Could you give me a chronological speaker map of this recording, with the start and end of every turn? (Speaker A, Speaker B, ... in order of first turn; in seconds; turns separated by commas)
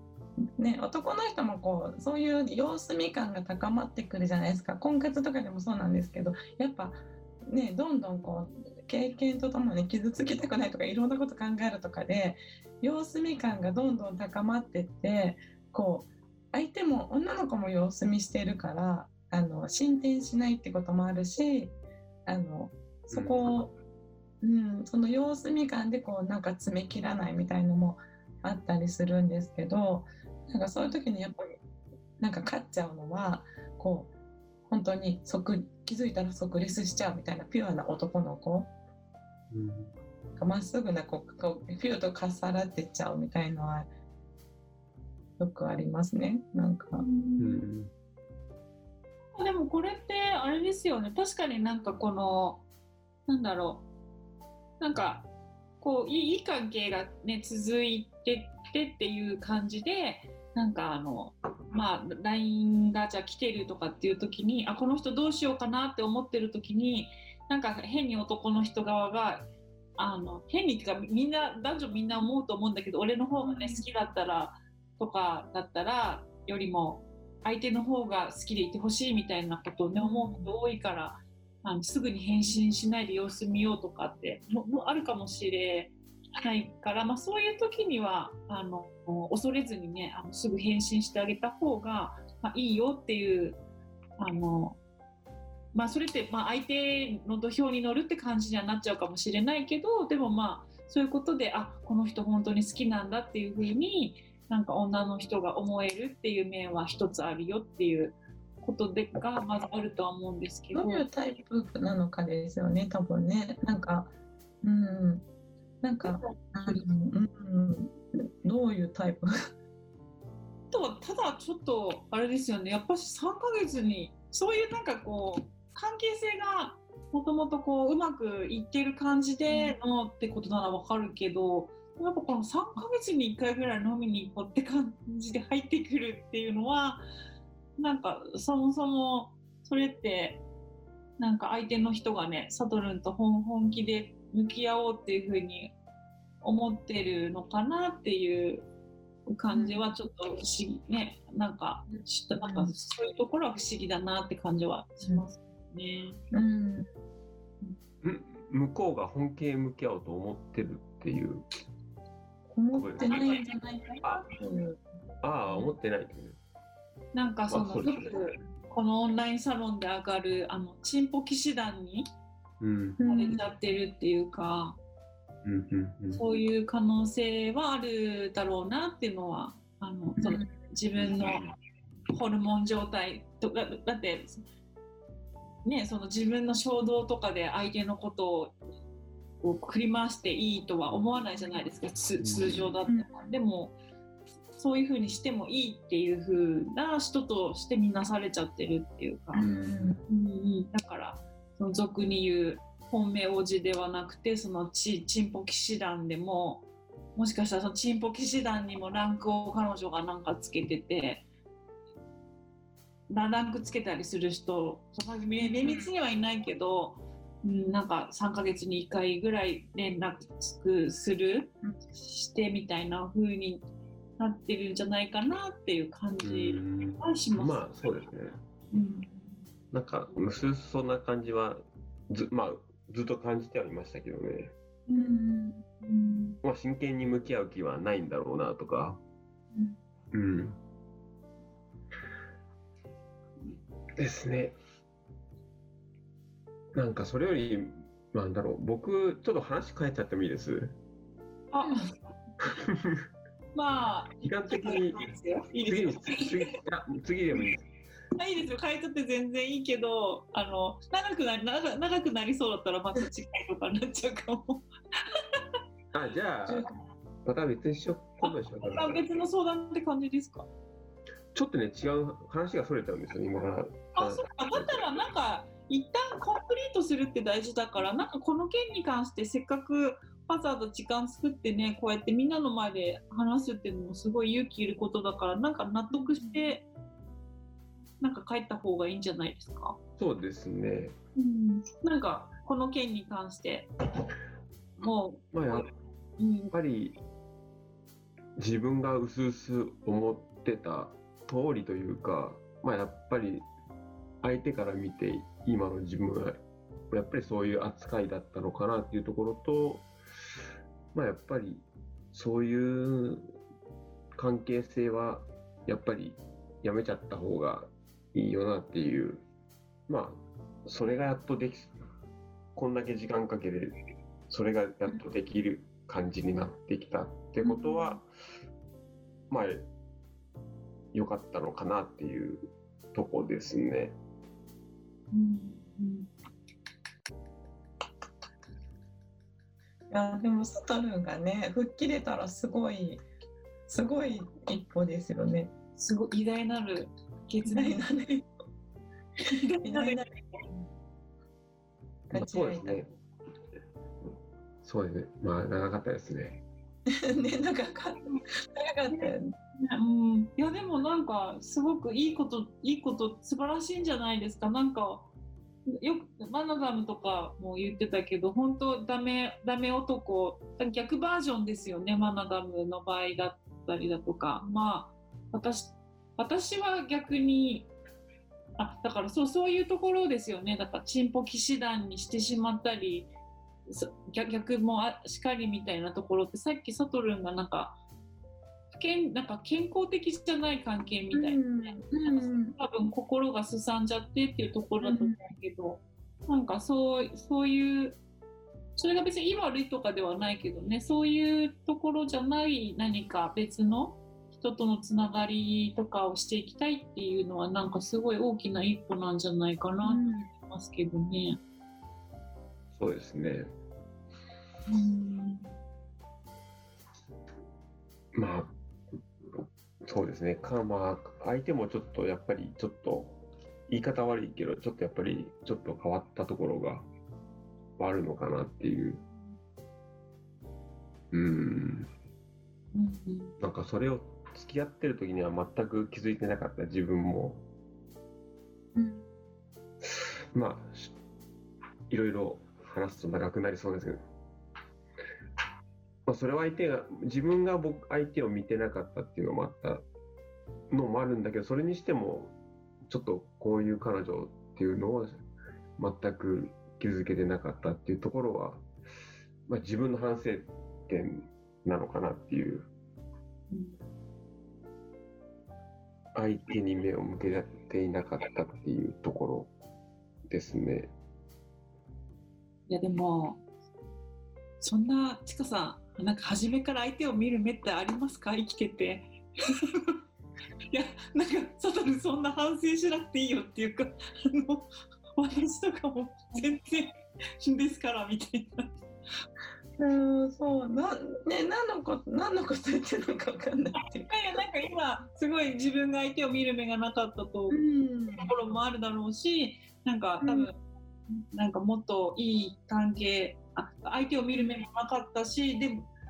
Speaker A: 0.6-23.7, Speaker B: 23.1-23.6, Speaker A: 24.4-31.5, Speaker A: 32.2-34.1, Speaker A: 34.7-38.7, Speaker B: 39.5-39.9, Speaker A: 40.4-43.9, Speaker A: 45.4-47.0, Speaker C: 47.0-47.6, Speaker B: 47.4-47.9, Speaker C: 49.4-52.6, Speaker C: 53.3-53.9, Speaker C: 54.8-55.3, Speaker C: 55.8-93.6, Speaker A: 73.5-73.8, Speaker A: 80.0-80.5, Speaker C: 94.2-94.8, Speaker C: 95.7-111.0, Speaker A: 110.7-114.1, Speaker A: 114.6-115.2, Speaker A: 115.8-119.3, Speaker C: 116.0-116.8, Speaker C: 120.7-137.1, Speaker A: 129.5-129.7, Speaker C: 137.8-140.4, Speaker C: 141.2-145.7, Speaker C: 146.4-148.7, Speaker C: 149.3-156.2, Speaker A: 149.5-149.8, Speaker A: 152.4-152.7, Speaker A: 156.3-156.8, Speaker B: 158.0-161.4, Speaker A: 162.5-164.8, Speaker B: 162.7-163.3, Speaker C: 163.0-163.4, Speaker B: 165.2-166.4, Speaker C: 167.1-172.1, Speaker B: 167.5-168.2, Speaker B: 172.6-173.0, Speaker A: 173.0-173.4, Speaker C: 173.1-174.8, Speaker B: 175.4-176.2, Speaker C: 176.1-181.4, Speaker B: 181.2-181.5, Speaker C: 182.1-184.4, Speaker C: 185.6-188.5, Speaker C: 189.4-193.8, Speaker B: 192.2-192.7, Speaker A: 192.9-193.1, Speaker C: 194.6-199.4, Speaker A: 199.3-200.0, Speaker B: 199.4-200.0, Speaker C: 200.1-211.2, Speaker C: 213.1-223.6, Speaker A: 215.4-215.9, Speaker C: 224.2-227.6, Speaker B: 226.2-228.4, Speaker C: 228.7-229.3, Speaker B: 229.7-234.5, Speaker C: 234.9-235.1, Speaker A: 234.9-235.8, Speaker C: 235.9-236.3, Speaker B: 236.4-239.0, Speaker B: 240.1-240.6, Speaker B: 244.0-244.5, Speaker B: 246.7-250.8, Speaker C: 251.5-251.9, Speaker B: 252.4-253.1, Speaker C: 253.5-256.3, Speaker B: 254.2-255.0, Speaker B: 255.6-257.6, Speaker C: 258.1-265.2, Speaker B: 265.9-266.7, Speaker B: 267.2-269.1, Speaker C: 268.2-270.5, Speaker B: 271.3-274.9, Speaker C: 273.9-286.6, Speaker A: 285.9-286.5, Speaker C: 288.0-289.8, Speaker B: 290.0-290.9, Speaker C: 291.1-293.7, Speaker C: 294.8-295.7, Speaker B: 295.3-295.7, Speaker C: 296.2-296.5, Speaker B: 296.5-297.0, Speaker B: 298.4-303.5, Speaker B: 304.2-309.9, Speaker B: 310.9-313.3, Speaker B: 314.2-319.2, Speaker B: 319.9-321.7, Speaker B: 322.5-323.8, Speaker B: 324.3-328.0, Speaker C: 327.5-328.0, Speaker B: 329.3-329.7, Speaker B: 330.9-333.9, Speaker C: 335.1-336.1, Speaker A: 339.9-343.0, Speaker A: 343.7-345.5, Speaker C: 345.8-347.8, Speaker A: 347.5-348.3, Speaker C: 349.2-350.4, Speaker A: 349.6-350.1, Speaker B: 352.1-352.9, Speaker A: 352.1-352.8, Speaker B: 354.6-356.4, Speaker A: 357.0-359.3, Speaker C: 358.9-365.1, Speaker C: 365.7-377.7, Speaker C: 378.6-383.1, Speaker C: 383.7-387.8, Speaker C: 388.7-398.0, Speaker A: 391.1-392.6, Speaker A: 394.8-395.2, Speaker C: 398.8-411.4, Speaker A: 409.8-410.3, Speaker B: 412.8-413.5, Speaker C: 414.7-415.5, Speaker B: 418.1-418.5, Speaker B: 419.3-426.9, Speaker B: 427.8-429.0, Speaker B: 431.1-431.9, Speaker C: 432.7-433.3, Speaker B: 433.4-437.4, Speaker A: 438.7-439.0, Speaker B: 439.8-440.9, Speaker B: 441.9-444.0, Speaker B: 446.1-449.8, Speaker B: 450.7-452.3, Speaker B: 452.9-455.2, Speaker B: 455.8-458.6, Speaker B: 459.5-462.7, Speaker C: 463.5-463.8, Speaker B: 466.1-469.5, Speaker B: 470.3-470.9, Speaker C: 472.7-473.4, Speaker C: 474.6-479.9, Speaker C: 480.7-488.8, Speaker A: 489.8-494.1, Speaker C: 493.8-497.6, Speaker A: 497.5-498.3, Speaker C: 498.1-500.6, Speaker A: 500.2-500.5, Speaker C: 501.1-505.9, Speaker A: 504.3-504.6